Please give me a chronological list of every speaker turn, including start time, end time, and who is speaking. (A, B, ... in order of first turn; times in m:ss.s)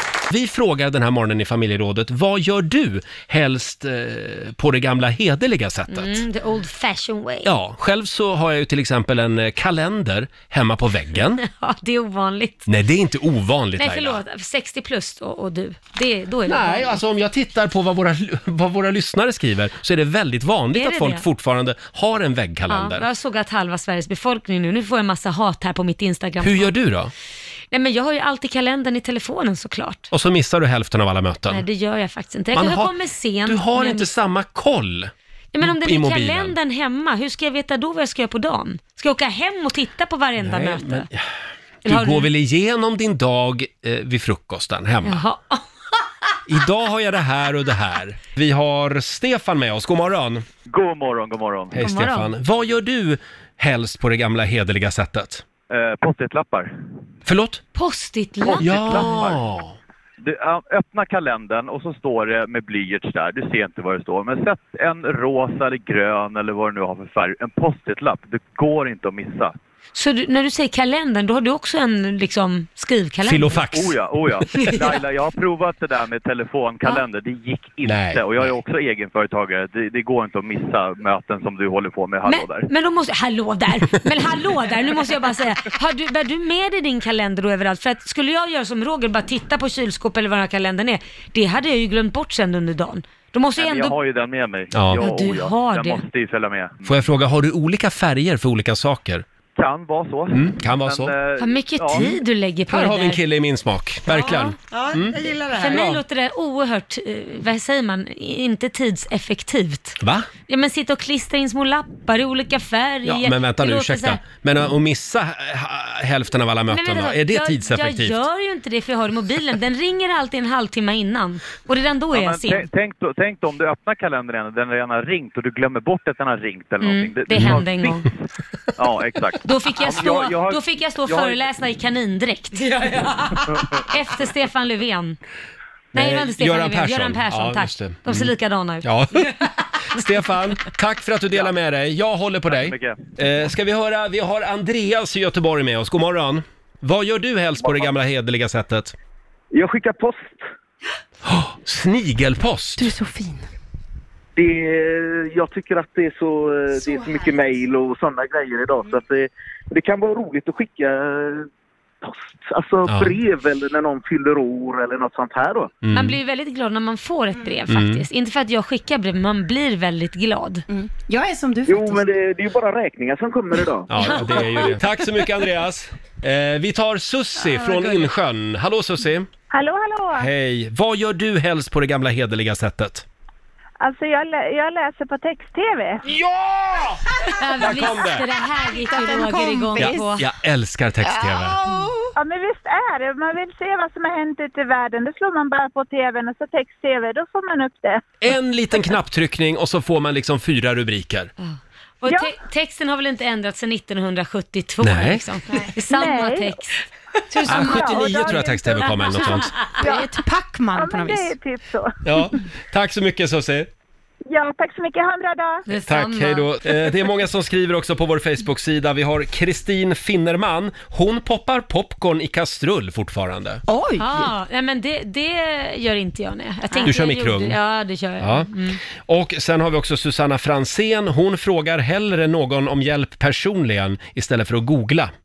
0:00.3-0:06.2 A
0:05.9-0:07.5 B
0:07.4-0:11.4 A
0:11.4-0:12.6 B
0:12.7-0:14.2 A
0:13.8-0:17.0 B
0:16.5-0:23.0 A
0:20.7-0:21.2 B
0:22.7-0:26.7 B
0:26.4-0:27.1 A
0:27.7-0:30.1 B
0:30.1-0:31.6 A
0:31.5-0:34.1 B
0:32.5-0:36.6 A
0:35.5-0:41.1 B
0:40.4-0:41.2 A
0:41.8-0:42.3 B
0:41.8-0:45.2 A
0:45.0-0:45.6 B
0:46.5-0:50.4 A
0:50.7-0:51.7 C
0:51.7-0:55.4 A
0:51.8-0:52.3 B
0:55.7-0:56.7 C
0:57.2-0:57.6 A
0:57.7-0:59.2 B
0:58.4-0:59.4 C
0:58.5-0:59.7 A
1:00.2-1:09.5 C
1:09.9-1:13.6 B
1:13.2-1:14.9 A
1:13.7-1:22.7 C
1:17.8-1:18.5 A
1:22.3-1:34.0 B
1:33.6-1:37.0 C
1:34.7-1:35.1 A
1:35.0-1:36.0 B
1:36.8-1:39.2 A
1:39.6-1:42.1 C
1:40.3-1:41.1 A
1:41.4-1:43.2 B
1:41.9-1:46.0 A
1:44.1-1:44.6 B
1:45.5-1:54.2 B
1:50.0-1:50.3 A
1:53.0-1:58.2 A
1:56.7-2:02.6 B
2:02.1-2:08.2 C
2:06.8-2:08.0 B
2:08.8-2:11.4 C
2:09.4-2:12.8 B
2:13.7-2:15.2 B
2:15.9-2:19.3 B
2:15.9-2:28.9 A
2:22.5-2:23.0 C
2:27.6-2:27.9 D
2:29.5-2:30.4 D
2:31.2-2:32.9 A
2:32.8-2:33.5 E
2:34.4-2:41.5 D
2:36.9-2:37.3 E
2:42.0-2:45.7 D
2:42.9-2:43.2 A
2:45.8-2:46.2 A
2:45.9-2:50.6 B
2:47.7-2:48.0 A
2:50.7-2:52.1 E
2:51.6-2:54.6 D
2:53.9-2:59.3 A
2:57.4-2:58.0 E
2:59.5-3:00.3 F
3:00.2-3:03.0 A
3:03.8-3:06.0 F
3:06.0-3:08.4 A
3:07.3-3:10.2 B
3:08.7-3:10.1 E
3:09.8-3:11.6 A
3:11.0-3:12.1 E
3:12.2-3:18.0 F
3:18.2-3:21.3 A
3:21.4-3:28.1 B
3:22.0-3:22.3 F
3:24.8-3:25.2 A
3:25.9-3:26.6 F
3:27.4-3:30.1 F
3:27.4-3:29.6 A
3:29.7-3:31.3 E
3:30.7-3:32.4 F
3:32.0-3:33.7 A
3:34.3-3:35.6 F
3:35.7-3:36.5 B
3:35.8-3:43.6 A
3:43.7-3:44.3 E
3:44.0-3:48.8 B
3:46.7-3:47.6 A
3:48.2-3:55.1 A